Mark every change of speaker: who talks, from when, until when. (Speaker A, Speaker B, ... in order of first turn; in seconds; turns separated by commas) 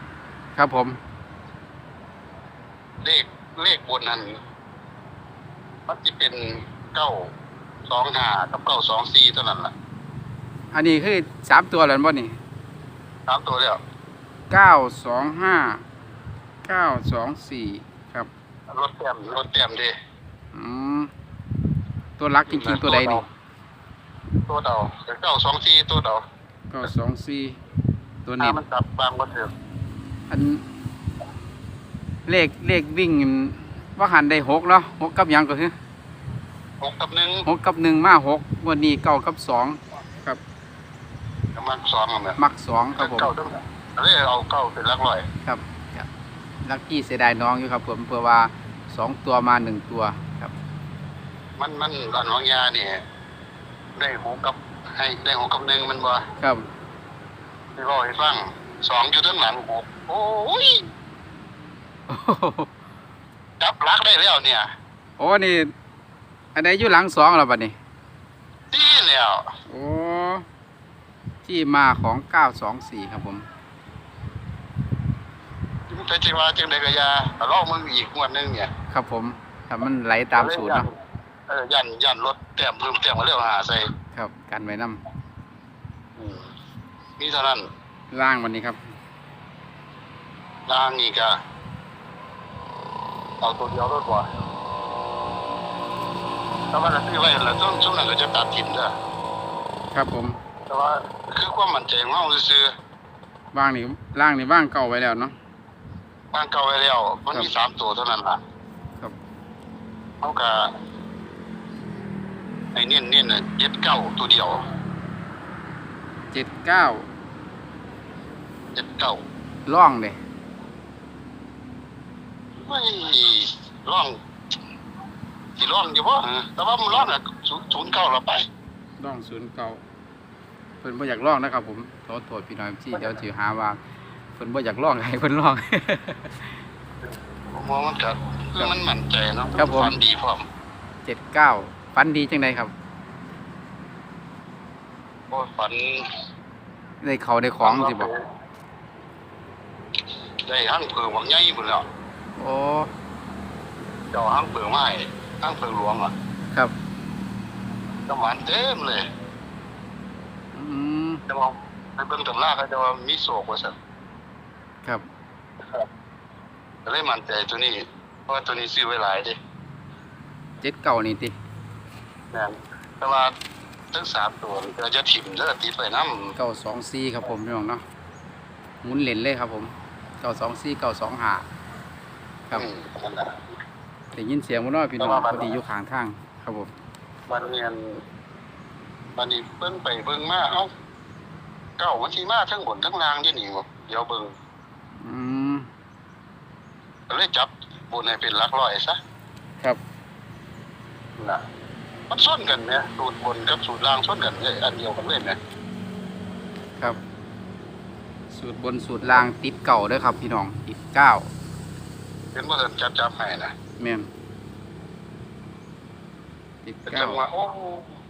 Speaker A: 0.6-1.0, Speaker B: 3.0-4.3, Speaker B: 5.9-7.3, Speaker B: 7.9-9.7, Speaker A: 10.7-12.4, Speaker B: 13.3-13.8, Speaker A: 14.5-15.8, Speaker A: 16.6-18.3, Speaker B: 18.7-19.9, Speaker A: 20.5-21.1, Speaker A: 22.2-23.2, Speaker B: 22.5-23.2, Speaker B: 24.4-26.2, Speaker A: 26.7-27.6, Speaker A: 28.2-28.6, Speaker B: 28.4-29.5, Speaker A: 30.3-30.6, Speaker A: 32.2-35.7, Speaker B: 36.8-37.5, Speaker A: 37.5-40.4, Speaker B: 41.5-42.4, Speaker A: 42.4-43.3, Speaker B: 43.0-45.2, Speaker A: 45.4-46.1, Speaker A: 46.6-50.5, Speaker B: 51.6-53.0, Speaker B: 54.0-56.2, Speaker A: 56.4-56.6, Speaker B: 57.8-60.9, Speaker A: 62.1-62.7, Speaker B: 63.6-64.7, Speaker A: 65.2-65.7, Speaker A: 66.5-67.7, Speaker B: 68.7-69.5, Speaker A: 69.7-70.5, Speaker A: 71.4-73.5, Speaker B: 75.9-78.7, Speaker A: 78.9-80.8, Speaker B: 80.3-80.9, Speaker B: 81.5-83.9, Speaker A: 84.1-85.0, Speaker B: 86.2-86.5, Speaker B: 87.2-87.7, Speaker A: 88.1-88.9, Speaker B: 90.7-91.3, Speaker B: 93.4-94.3, Speaker B: 96.7-98.9, Speaker A: 99.9-100.4, Speaker B: 100.7-102.7, Speaker A: 103.5-105.3, Speaker B: 106.3-108.4, Speaker B: 110.2-110.7, Speaker B: 112.7-114.6, Speaker A: 116.3-117.1, Speaker B: 118.7-119.2, Speaker A: 119.7-120.2, Speaker B: 122.6-124.2, Speaker B: 125.6-128.4, Speaker A: 129.0-129.8, Speaker A: 130.8-133.8, Speaker A: 134.3-136.5, Speaker B: 137.5-140.4, Speaker A: 139.6-139.9, Speaker A: 141.0-142.7, Speaker B: 145.3-146.1, Speaker A: 147.0-148.1, Speaker B: 147.6-148.2, Speaker B: 150.4-151.8, Speaker A: 152.4-152.9, Speaker B: 154.1-156.1, Speaker B: 158.1-159.1, Speaker A: 160.5-161.2, Speaker B: 161.3-163.8, Speaker B: 166.8-169.4, Speaker A: 170.6-171.3, Speaker B: 172.3-173.3, Speaker B: 173.9-176.3, Speaker A: 176.3-177.8, Speaker A: 178.8-181.4, Speaker B: 182.5-183.4, Speaker A: 184.1-186.7, Speaker B: 185.0-185.5, Speaker B: 187.3-188.0, Speaker B: 189.2-190.7, Speaker B: 191.8-194.3, Speaker A: 195.0-195.7, Speaker B: 197.1-199.0, Speaker B: 202.1-205.4, Speaker A: 208.3-211.3, Speaker B: 212.3-213.5, Speaker A: 213.8-214.1, Speaker A: 216.6-217.2, Speaker B: 216.9-217.9